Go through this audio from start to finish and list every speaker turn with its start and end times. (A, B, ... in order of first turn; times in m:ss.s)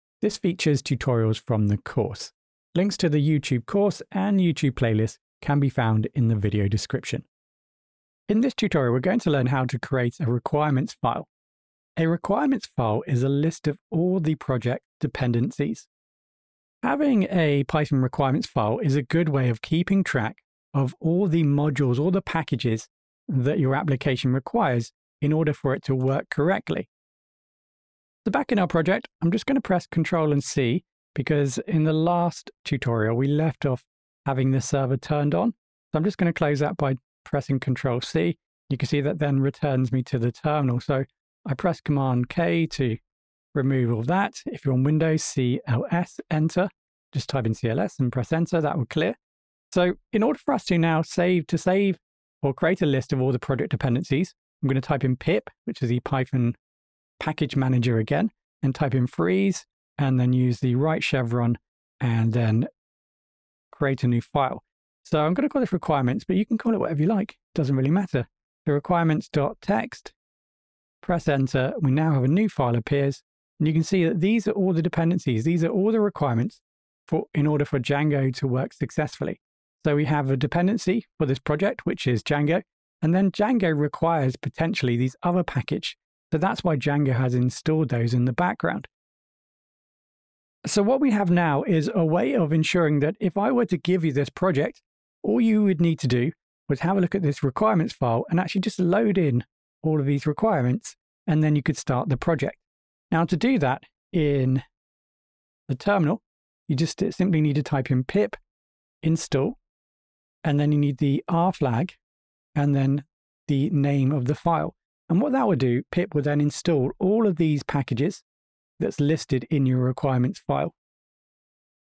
0:00.2-0:07.2 A
0:08.3-0:11.3 A
0:12.0-0:15.9 A
0:16.8-0:26.9 A
0:28.2-0:43.0 A
0:43.5-0:49.2 A
0:49.7-0:56.6 A
0:57.2-1:02.7 A
1:03.7-1:10.1 A
1:11.0-1:28.9 A
1:30.6-1:44.6 A
1:45.7-1:48.4 A
1:49.0-1:49.6 A
1:50.4-1:52.0 A
1:52.5-1:58.2 A
1:58.8-2:00.7 A